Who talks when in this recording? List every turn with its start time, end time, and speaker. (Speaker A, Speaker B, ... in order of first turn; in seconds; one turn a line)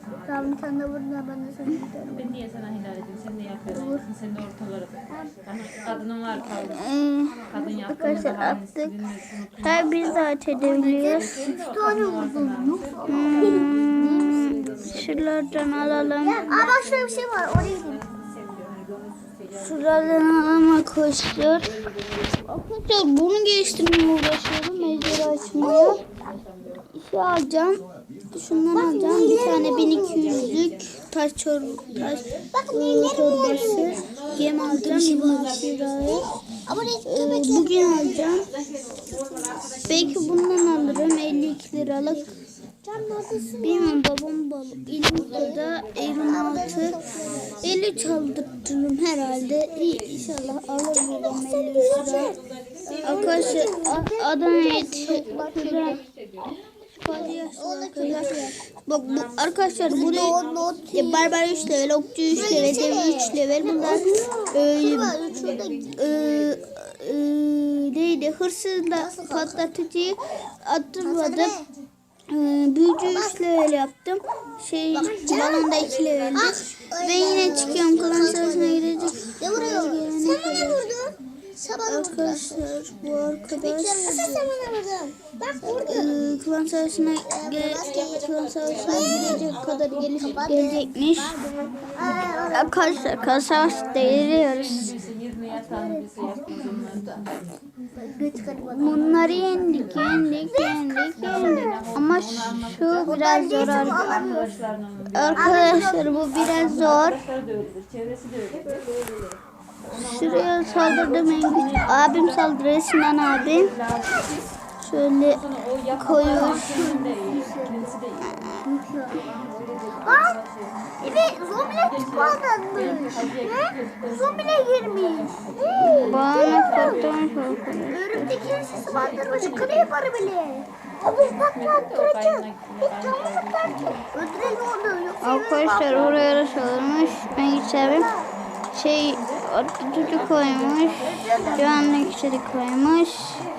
Speaker A: 0.2-2.4
Speaker B: 2.1-6.8
Speaker A: 5.1-6.0
Speaker C: 6.5-9.0
Speaker B: 7.5-10.0
Speaker C: 9.6-11.5
Speaker A: 10.6-14.7
Speaker B: 11.1-15.0
Speaker C: 13.1-16.6
Speaker B: 16.1-19.9
Speaker A: 16.2-18.1
Speaker C: 19.5-21.8
Speaker C: 22.6-26.0
Speaker A: 25.6-26.0
Speaker C: 26.9-36.3
Speaker A: 28.7-30.6
Speaker B: 30.0-30.6
Speaker A: 32.5-35.5
Speaker B: 33.5-36.2
Speaker A: 36.7-38.4
Speaker C: 37.0-38.5
Speaker A: 39.1-39.9
Speaker C: 39.9-42.3
Speaker B: 40.7-41.2
Speaker A: 42.8-44.0
Speaker C: 43.6-52.4
Speaker A: 45.2-45.6
Speaker A: 46.2-47.7
Speaker A: 51.1-56.0
Speaker C: 53.0-56.0
Speaker B: 53.1-53.7
Speaker C: 56.9-71.6
Speaker A: 57.1-58.6
Speaker A: 59.9-61.5
Speaker A: 62.3-66.0
Speaker A: 68.9-69.7
Speaker A: 71.0-71.7
Speaker C: 72.3-80.8
Speaker A: 73.0-73.4
Speaker A: 74.9-82.9
Speaker B: 77.8-78.4
Speaker C: 81.9-84.5
Speaker A: 83.5-86.2
Speaker C: 85.8-91.4
Speaker A: 87.2-93.4
Speaker C: 92.5-95.0
Speaker B: 93.0-97.3
Speaker A: 95.5-96.9
Speaker A: 97.9-99.2
Speaker C: 98.8-104.3
Speaker B: 98.9-100.2
Speaker A: 100.5-101.9
Speaker B: 101.2-105.7
Speaker A: 103.0-104.5
Speaker C: 105.1-107.2
Speaker A: 105.3-106.6
Speaker B: 106.3-108.8
Speaker B: 109.9-112.4
Speaker C: 110.0-113.8
Speaker B: 113.3-114.5
Speaker C: 114.8-117.0
Speaker B: 115.4-118.6
Speaker A: 116.3-118.0
Speaker A: 118.6-119.2
Speaker B: 119.2-120.7
Speaker A: 120.0-120.4
Speaker A: 121.0-127.1
Speaker B: 121.8-127.8
Speaker C: 125.8-128.4
Speaker A: 127.9-136.2
Speaker B: 128.5-129.9
Speaker B: 131.2-134.0
Speaker C: 135.2-138.1
Speaker B: 136.0-137.3
Speaker A: 137.7-138.3
Speaker C: 138.7-143.4
Speaker B: 139.1-139.4
Speaker B: 140.1-142.0